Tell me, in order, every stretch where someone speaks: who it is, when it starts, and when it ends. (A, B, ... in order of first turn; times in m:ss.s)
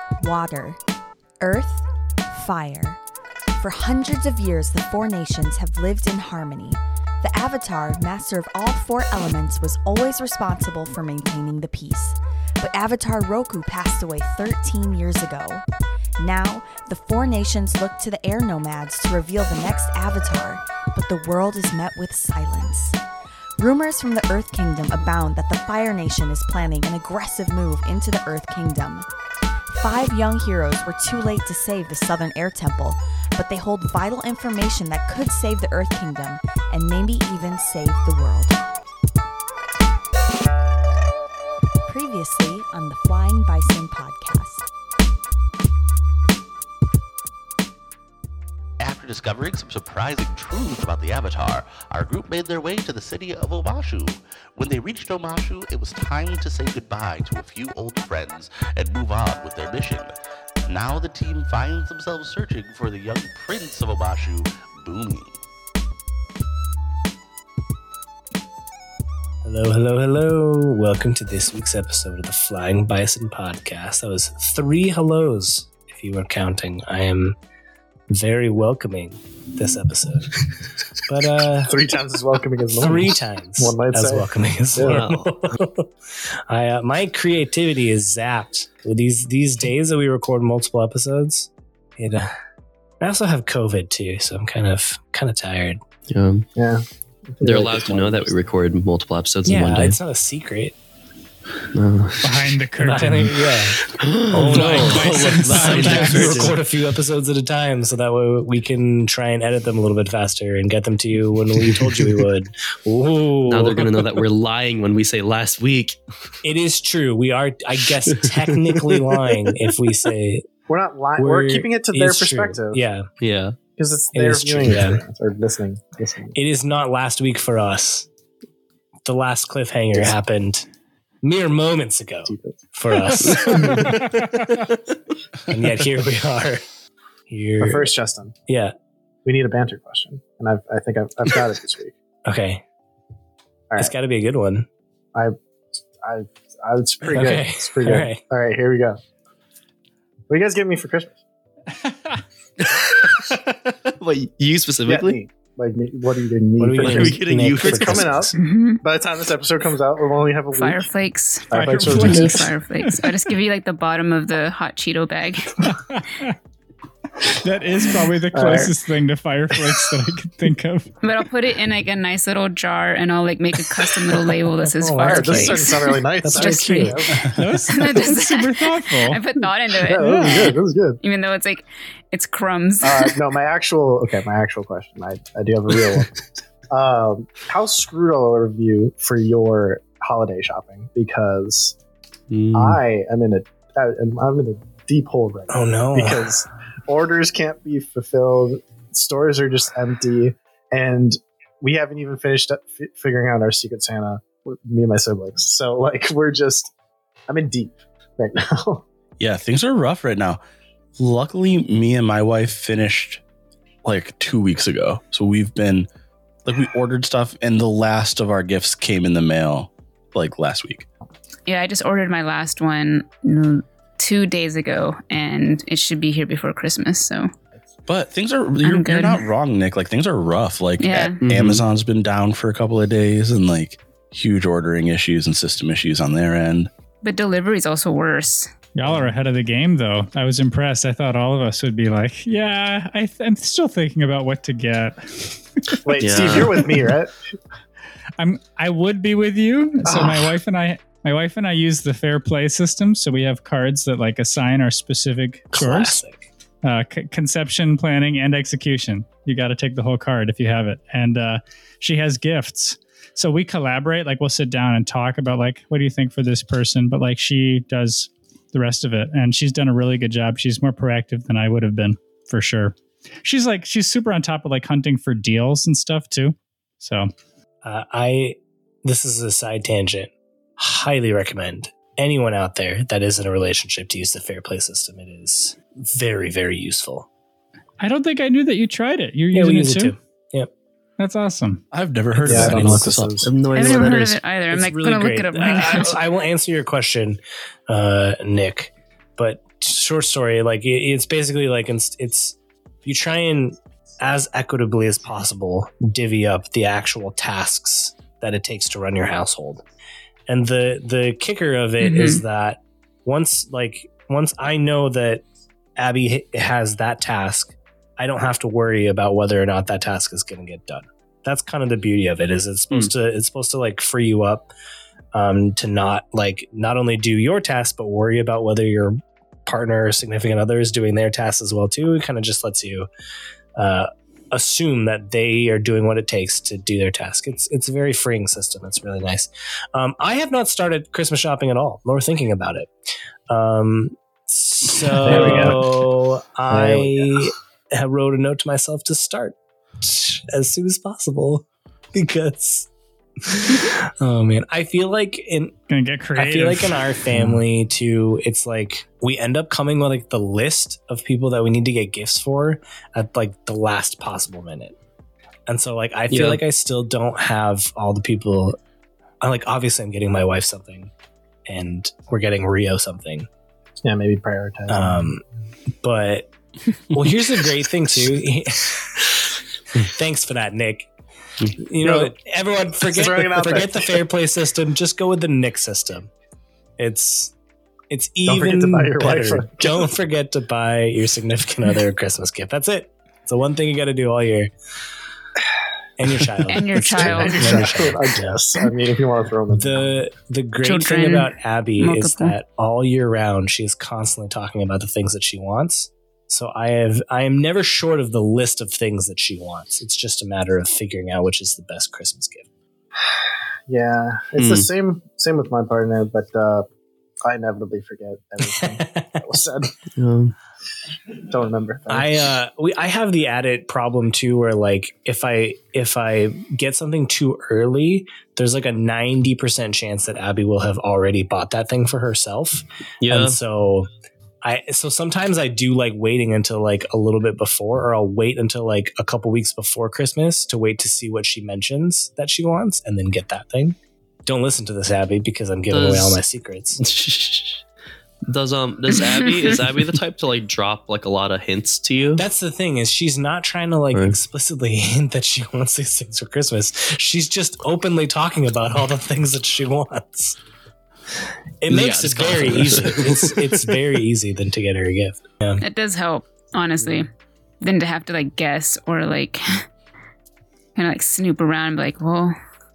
0:00.2-0:00.8 A
0:01.4-0:03.0 A
0:03.6-0:15.6 A
0:16.2-0:23.0 A
0:23.6-0:29.0 A
0:29.7-0:38.6 A
0:41.9-0:44.6 A
0:48.8-1:00.1 B
1:00.7-1:05.3 B
1:09.4-1:17.4 C
1:18.1-1:20.4 C
1:21.0-1:21.8 C
1:21.7-1:25.1 D
1:22.7-1:25.9 C
1:24.9-1:25.3 E
1:26.5-1:32.3 C
1:33.0-1:35.8 C
1:36.1-1:36.5 E
1:36.5-1:38.4 D
1:37.4-1:40.0 E
1:39.4-1:40.8 C
1:41.7-1:42.4 E
1:42.2-1:43.4 F
1:42.8-1:54.2 C
1:43.9-1:46.6 E
1:44.5-1:46.6 F
1:53.4-1:56.0 E
1:56.4-2:00.5 C
1:58.0-1:59.0 E
2:00.7-2:02.8 D
2:01.2-2:03.1 C
2:03.2-2:03.6 E
2:03.8-2:06.3 D
2:04.1-2:05.0 C
2:06.3-2:08.1 C
2:09.0-2:10.7 C
2:11.2-2:14.1 C
2:12.2-2:12.6 D
2:13.2-2:14.0 D
2:13.4-2:14.0 E
2:15.5-2:16.6 C
2:17.3-2:17.9 C
2:17.6-2:18.3 D
2:18.5-2:18.7 C
2:19.2-2:21.9 D
2:22.2-2:22.6 C
2:23.8-2:24.7 C
2:26.0-2:29.0 D
2:27.0-2:28.2 C
2:30.3-2:31.2 D
2:31.8-2:32.2 F
2:32.6-2:35.2 E
2:34.8-2:40.9 D
2:36.6-2:38.3 C
2:36.8-2:38.2 E
2:38.4-2:38.8 G
2:40.5-2:45.8 G
2:41.5-2:42.5 D
2:41.5-2:43.1 F
2:45.6-2:46.3 F
2:47.2-2:50.9 F
2:48.3-2:48.7 D
2:51.0-3:03.1 G
2:54.7-2:57.0 C
2:55.0-2:57.3 D
2:57.3-2:59.2 F
2:59.8-3:01.0 D
3:00.0-3:00.5 F
3:02.8-3:06.2 D
3:06.7-3:11.8 D
3:12.3-3:12.8 E
3:12.5-3:26.7 D
3:15.5-3:16.3 C
3:27.3-3:28.8 D
3:29.2-3:30.4 H
3:31.0-3:33.2 H
3:33.8-3:35.9 H
3:36.4-3:40.9 H
3:41.4-3:47.3 G
3:47.9-3:56.7 H
3:48.6-3:49.3 G
3:50.8-3:51.2 G
3:51.2-3:51.6 E
3:57.0-3:58.5 G
3:58.7-4:05.8 F
4:05.8-4:07.1 D
4:06.0-4:06.7 E
4:08.2-4:16.0 F
4:09.8-4:10.3 D
4:15.5-4:16.3 C
4:16.6-4:37.1 F
4:37.6-4:47.1 C
4:47.8-4:49.9 F
4:49.3-4:50.5 C
4:51.0-4:51.6 F
4:51.7-4:53.2 H
4:52.2-4:53.3 D
4:52.2-4:52.8 C
4:53.2-4:54.2 E
4:53.5-4:56.0 G
4:54.5-5:09.6 C
5:10.3-5:15.2 C
5:11.8-5:12.2 G
5:15.8-5:24.5 C
5:25.1-5:32.9 C
5:33.6-5:42.7 C
5:43.3-5:52.7 C
5:45.0-5:45.7 D
5:46.5-5:47.2 D
5:53.2-5:55.5 C
5:55.7-5:57.1 F
5:56.1-6:04.8 C
6:05.5-6:08.6 C
6:06.1-6:06.4 E
6:09.2-6:10.9 C
6:11.5-6:13.3 C
6:13.8-6:15.0 D
6:14.7-6:15.2 C
6:15.8-6:16.3 C
6:16.9-6:19.2 C
6:19.8-6:20.9 C
6:21.6-6:26.1 C
6:21.8-6:22.1 D
6:22.8-6:24.0 D
6:26.8-6:27.3 C
6:27.9-6:34.5 C
6:28.2-6:29.9 D
6:36.0-6:38.4 C
6:36.5-6:37.6 G
6:36.9-6:39.9 D
6:39.5-6:52.5 C
6:40.6-6:42.3 G
6:53.7-6:56.7 D
6:54.4-6:54.7 E
6:57.2-6:59.7 D
6:58.4-6:59.2 C
7:00.0-7:00.3 E
7:01.3-7:02.2 D
7:01.9-7:13.9 C
7:13.0-7:13.4 E
7:14.4-7:26.8 C
7:25.7-7:26.2 E
7:26.8-7:27.6 E
7:28.2-7:32.2 E
7:32.2-7:40.4 C
7:41.6-7:45.6 C
7:41.7-7:43.8 E
7:45.6-7:47.1 G
7:47.6-7:49.6 G
7:50.8-7:52.3 G